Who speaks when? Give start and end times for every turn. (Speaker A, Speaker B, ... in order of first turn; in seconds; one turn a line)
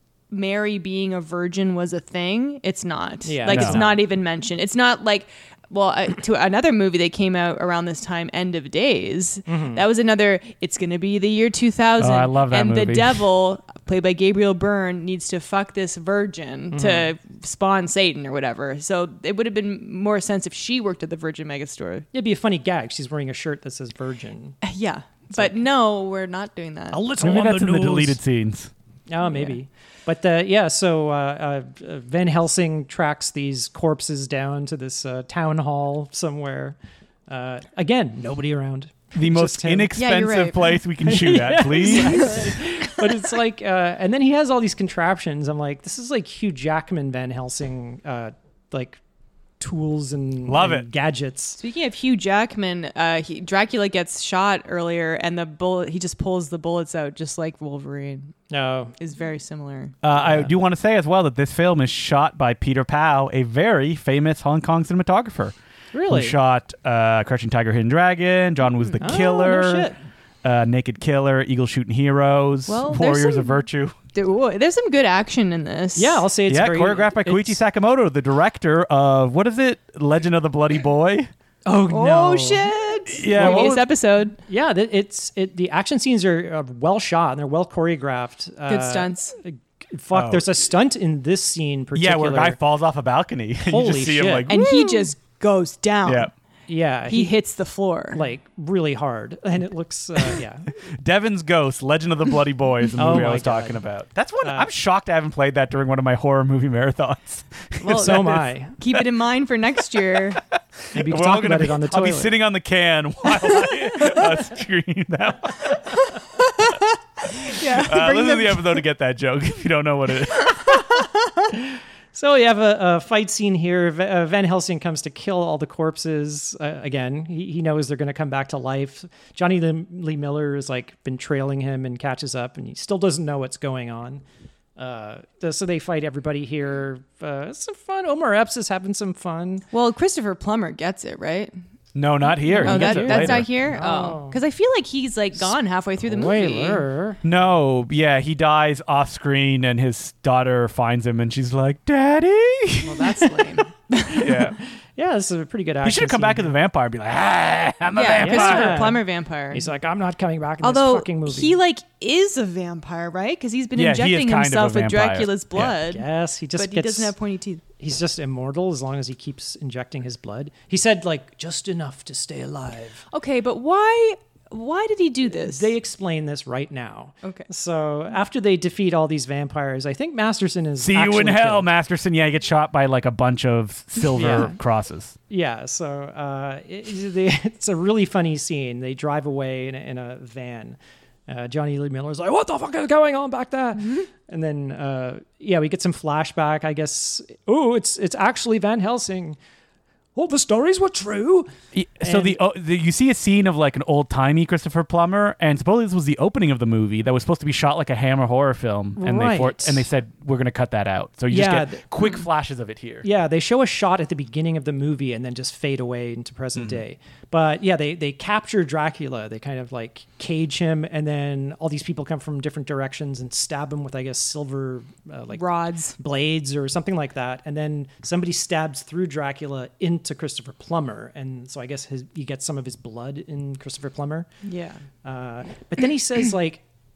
Speaker A: 0.3-22.1
Speaker B: 3.2-4.0
Speaker C: 3.5-3.8
Speaker B: 9.5-9.8
Speaker C: 12.0-13.3
Speaker B: 16.7-17.1
Speaker B: 22.1-24.6
Speaker A: 24.6-27.0
Speaker B: 26.9-28.2
Speaker C: 27.2-28.7
Speaker B: 29.1-36.8
Speaker A: 29.2-29.6
Speaker B: 37.3-40.0
Speaker C: 39.1-42.5
Speaker A: 39.9-40.8
Speaker B: 41.0-49.0
Speaker A: 41.7-43.0
Speaker B: 49.6-51.6
Speaker C: 50.5-50.9
Speaker A: 51.6-58.3
Speaker B: 58.5-59.0
Speaker A: 59.0-59.9
Speaker C: 60.0-65.5
Speaker B: 60.1-60.5
Speaker B: 65.9-66.4
Speaker C: 66.1-69.9
Speaker A: 68.8-69.2
Speaker B: 69.0-70.0
Speaker C: 70.4-74.0
Speaker A: 72.7-73.6
Speaker A: 74.1-76.2
Speaker B: 76.0-77.6
Speaker C: 76.5-81.3
Speaker B: 81.7-83.8
Speaker A: 81.9-84.4
Speaker C: 83.2-83.8
Speaker B: 84.5-92.6
Speaker A: 88.7-89.3
Speaker C: 90.1-90.4
Speaker C: 91.9-94.6
Speaker B: 93.6-95.1
Speaker A: 94.5-96.3
Speaker C: 96.1-96.3
Speaker B: 96.7-97.4
Speaker A: 97.1-98.2
Speaker B: 98.1-100.7
Speaker C: 100.9-108.4
Speaker B: 103.0-103.8
Speaker B: 104.4-104.7
Speaker A: 107.8-110.4
Speaker B: 107.9-108.8
Speaker C: 110.9-116.0
Speaker B: 110.9-112.3
Speaker A: 116.0-118.8
Speaker C: 117.3-120.8
Speaker A: 120.6-121.4
Speaker B: 121.5-134.2
Speaker B: 134.8-139.7
Speaker A: 139.7-141.5
Speaker C: 141.9-143.5
Speaker B: 142.5-144.4
Speaker A: 142.6-146.8
Speaker B: 146.0-147.2
Speaker C: 147.2-153.2
Speaker A: 152.8-154.5
Speaker C: 154.2-154.6
Speaker B: 154.2-156.6
Speaker C: 155.8-158.9
Speaker A: 157.9-159.7
Speaker B: 158.2-161.6
Speaker A: 160.6-167.6
Speaker C: 163.8-165.8
Speaker B: 165.7-167.1
Speaker B: 167.8-173.0
Speaker A: 173.1-175.7
Speaker B: 175.3-181.7
Speaker C: 180.8-185.2
Speaker B: 184.1-184.6
Speaker B: 185.3-190.8
Speaker B: 191.3-199.4
Speaker B: 200.1-202.4
Speaker C: 201.7-213.1
Speaker B: 209.0-209.9
Speaker B: 211.3-212.1
Speaker B: 213.0-234.3
Speaker A: 225.3-226.0
Speaker A: 234.4-234.8
Speaker B: 235.0-236.6